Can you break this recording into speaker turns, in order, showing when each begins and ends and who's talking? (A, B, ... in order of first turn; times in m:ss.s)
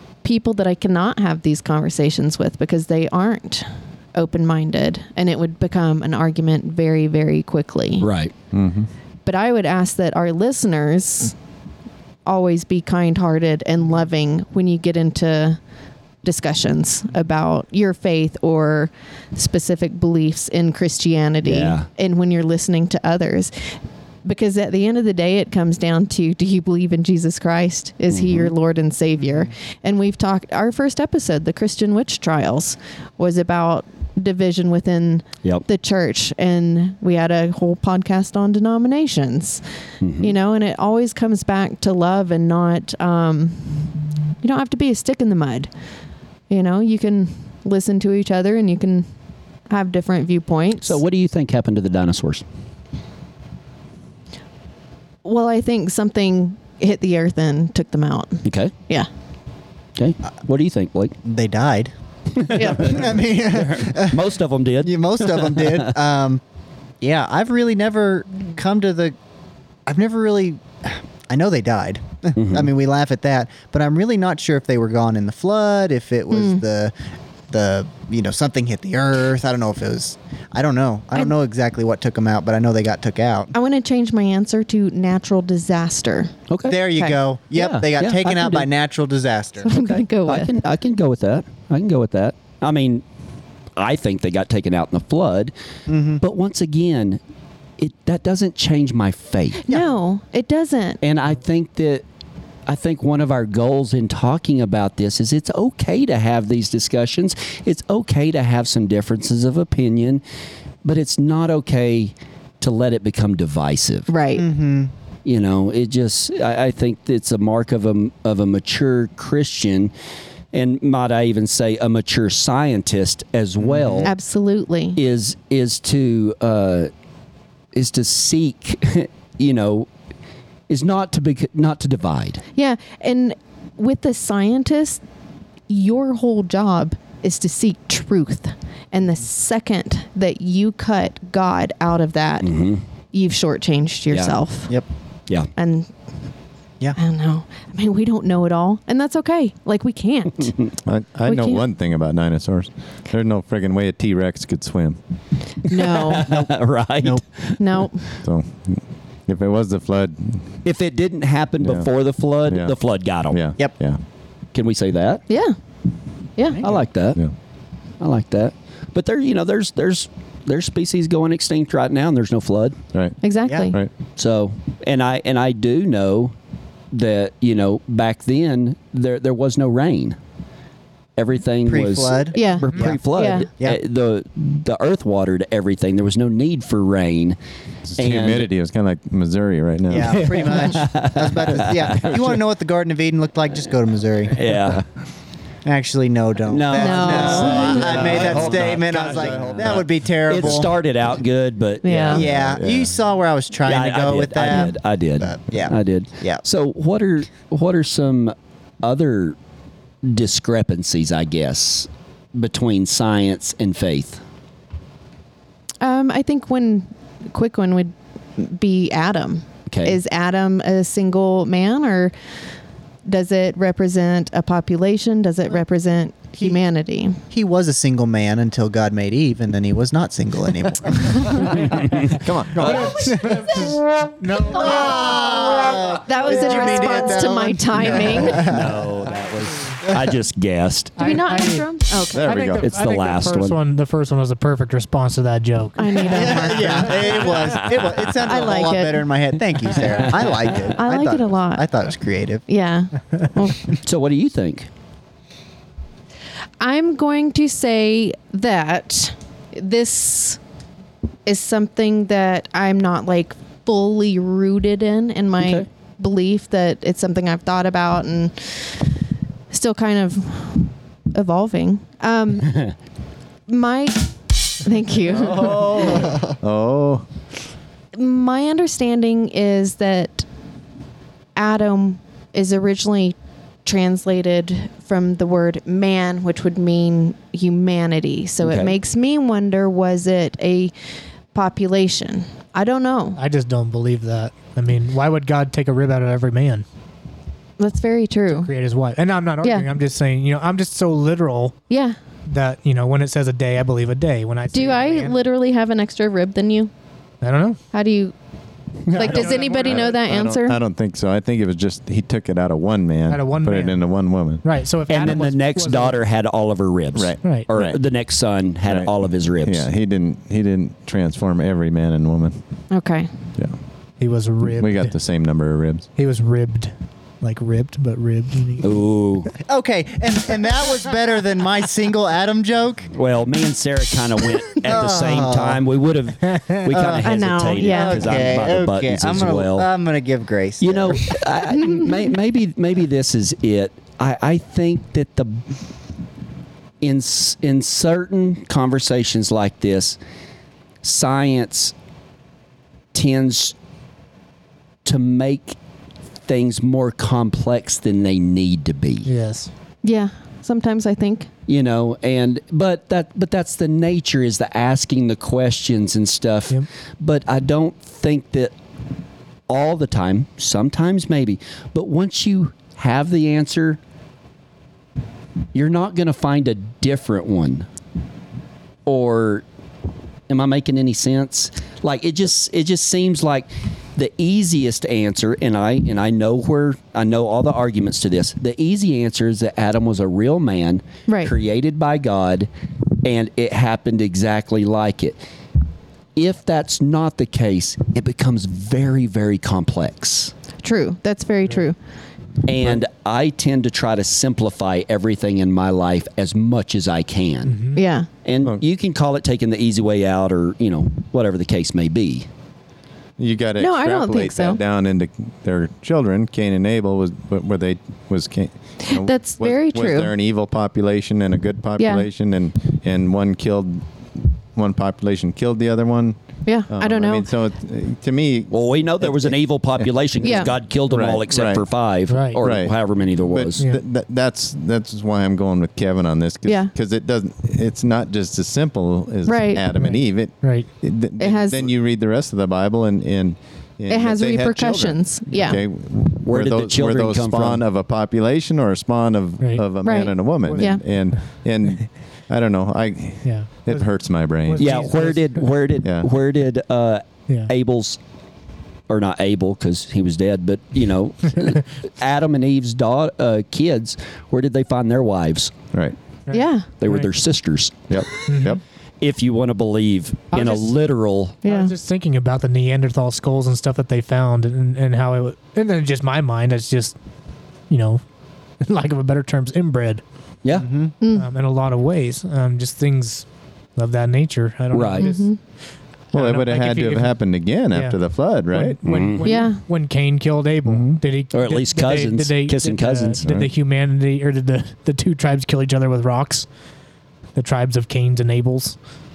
0:00.2-0:08.1 A
0:08.0-0:08.3 B
0:08.5-0:08.9 C
0:09.2-0:11.3 A
0:12.2-0:15.6 A
0:16.2-0:23.5 A
0:21.4-0:21.9 B
0:24.2-0:39.6 A
0:28.1-0:28.5 B
0:40.0-0:40.3 B
0:40.2-0:45.7 A
0:46.5-0:49.0 A
0:49.7-0:51.0 A
0:50.8-0:52.4 B
0:55.2-0:59.1 A
0:58.4-0:58.7 B
1:00.0-1:01.2 B
1:01.2-1:01.9 D
1:02.3-1:06.0 B
1:02.5-1:04.2 D
1:02.5-1:03.0 A
1:04.8-1:06.4 D
1:07.0-1:09.1 D
1:09.8-1:16.9 D
1:12.3-1:12.7 B
1:16.3-1:16.6 A
1:17.5-1:23.5 D
1:23.5-1:26.3 A
1:26.5-1:26.8 B
1:26.7-1:29.7 D
1:27.5-1:28.7 B
1:29.6-1:30.6 A
1:29.7-1:33.0 B
1:33.8-1:35.5 B
1:35.9-1:36.2 D
1:36.2-1:37.2 B
1:37.8-1:39.6 B
1:39.6-1:41.0 A
1:41.0-1:42.0 B
1:42.6-1:50.2 B
1:50.8-1:54.1 B
1:54.1-1:54.4 A
1:54.3-1:54.9 D
1:55.2-1:59.9 B
2:00.5-2:04.1 B
2:03.6-2:04.1 D
2:04.0-2:05.0 A
2:05.0-2:06.9 B
2:07.7-2:09.9 B
2:10.7-2:12.4 B
2:12.6-2:15.0 A
2:15.7-2:22.5 A
2:22.4-2:22.8 B
2:23.1-2:24.7 A
2:24.1-2:24.4 B
2:25.5-2:25.9 A
2:27.0-2:30.6 A
2:30.8-2:35.0 C
2:31.3-2:31.6 A
2:35.7-2:36.3 A
2:35.7-2:37.9 B
2:36.2-2:36.5 D
2:37.6-2:38.0 A
2:38.2-2:40.4 C
2:40.6-2:43.4 B
2:41.6-2:41.9 C
2:42.5-2:42.7 C
2:43.3-2:44.0 C
2:44.5-2:45.2 B
2:45.3-2:45.6 A
2:46.6-2:47.2 B
2:48.0-2:52.8 B
2:53.2-2:53.8 A
2:53.4-2:53.7 D
2:54.2-2:56.3 B
2:56.9-3:00.2 B
3:01.2-3:07.4 B
3:01.6-3:03.8 D
3:02.3-3:03.5 A
3:07.8-3:10.6 C
3:08.0-3:08.5 B
3:09.9-3:14.4 D
3:10.0-3:12.4 B
3:11.7-3:12.1 C
3:14.3-3:14.8 B
3:15.6-3:20.7 D
3:16.5-3:22.2 B
3:16.7-3:17.9 A
3:17.2-3:20.7 C
3:21.8-3:22.2 A
3:22.1-3:26.4 D
3:22.1-3:23.0 C
3:23.6-3:29.4 B
3:30.0-3:34.2 B
3:35.8-3:42.1 A
3:39.7-3:40.0 B
3:43.0-3:47.2 A
3:47.3-3:53.6 D
3:52.1-3:53.1 C
3:52.6-3:55.1 E
3:54.4-3:58.8 D
3:56.0-3:58.6 A
3:58.2-4:01.0 B
3:59.3-3:59.8 E
4:01.0-4:02.3 A
4:01.0-4:06.9 E
4:02.1-4:02.6 C
4:02.6-4:03.6 B
4:05.8-4:07.2 A
4:06.1-4:12.4 D
4:07.1-4:08.0 B
4:08.2-4:09.1 A
4:09.8-4:10.7 B
4:10.7-4:11.6 A
4:12.5-4:13.7 A
4:13.8-4:14.7 B
4:16.6-4:20.4 A
4:21.2-4:28.8 A
4:25.4-4:25.6 B
4:29.5-4:32.7 A
4:33.5-4:36.0 A
4:35.1-4:37.0 C
4:35.3-4:36.0 B
4:35.9-4:36.3 D
4:37.9-4:40.2 A
4:41.4-4:50.7 A
4:48.4-4:48.7 B
4:51.3-4:53.2 A
4:53.2-4:56.6 E
4:57.6-4:58.5 A
4:58.3-5:01.6 E
4:59.4-4:59.7 A
5:01.7-5:02.0 A
5:02.3-5:05.2 E
5:04.5-5:06.7 A
5:07.2-5:07.6 E
5:07.7-5:08.1 A
5:08.8-5:09.4 B
5:08.9-5:10.6 A
5:09.0-5:09.8 E
5:09.3-5:14.4 C
5:13.1-5:13.8 E
5:14.4-5:16.0 E
5:14.9-5:19.7 B
5:16.9-5:17.8 C
5:18.6-5:18.9 C
5:19.4-5:22.4 C
5:22.7-5:23.1 A
5:24.0-5:24.9 E
5:24.4-5:25.9 C
5:26.0-5:28.7 E
5:28.6-5:29.3 B
5:29.4-5:32.9 D
5:32.9-5:39.7 B
5:34.6-5:35.6 D
5:36.6-5:41.2 D
5:36.8-5:38.3 A
5:40.6-5:45.5 B
5:41.6-5:41.9 A
5:46.8-5:50.0 B
5:50.8-5:51.7 B
5:52.9-5:53.5 B
5:54.8-5:55.6 B
5:56.2-5:59.1 B
5:59.0-5:59.5 E
5:59.8-6:01.3 A
6:01.5-6:08.5 B
6:09.5-6:13.8 B
6:15.5-6:17.7 B
6:18.8-6:19.4 B
6:20.3-6:32.5 B
6:31.1-6:31.3 A
6:33.0-6:35.2 B
6:36.2-6:40.3 B
6:40.6-6:41.8 A
6:42.4-6:47.6 B
6:47.4-6:47.8 E
6:47.7-6:48.1 A
6:48.2-6:52.3 B
6:53.2-7:06.2 C
6:53.6-6:54.6 A
6:58.8-7:00.1 A
7:01.8-7:02.0 A
7:06.4-7:07.3 A
7:06.7-7:11.6 C
7:08.5-7:13.6 B
7:10.2-7:10.5 A
7:12.1-7:12.4 E
7:12.4-7:34.7 C
7:16.4-7:16.7 A
7:19.2-7:19.6 A
7:19.7-7:20.7 E
7:21.2-7:21.7 A
7:23.9-7:25.6 A
7:26.2-7:27.6 B
7:29.8-7:30.8 A
7:30.4-7:31.2 E
7:33.2-7:35.4 E
7:34.6-7:38.0 B
7:38.9-7:45.5 B
7:46.3-7:47.1 E
7:46.3-7:46.7 A
7:46.8-7:48.0 B
7:47.9-7:48.6 C
7:48.2-7:48.6 E
7:49.0-7:51.4 B
7:50.3-7:50.7 E
7:51.4-7:51.7 A
7:51.4-7:57.0 E
7:57.7-7:58.0 E
7:58.6-8:00.0 E
8:00.5-8:00.9 D
8:01.0-8:01.3 A
8:01.1-8:05.3 E
8:04.7-8:05.1 B
8:05.0-8:05.4 A
8:06.1-8:07.1 E
8:06.1-8:08.8 C
8:07.7-8:08.0 E
8:08.5-8:16.5 E
8:08.8-8:09.3 B
8:09.2-8:09.6 A
8:10.6-8:11.0 C
8:11.3-8:13.2 B
8:13.2-8:13.5 C
8:17.3-8:18.8 E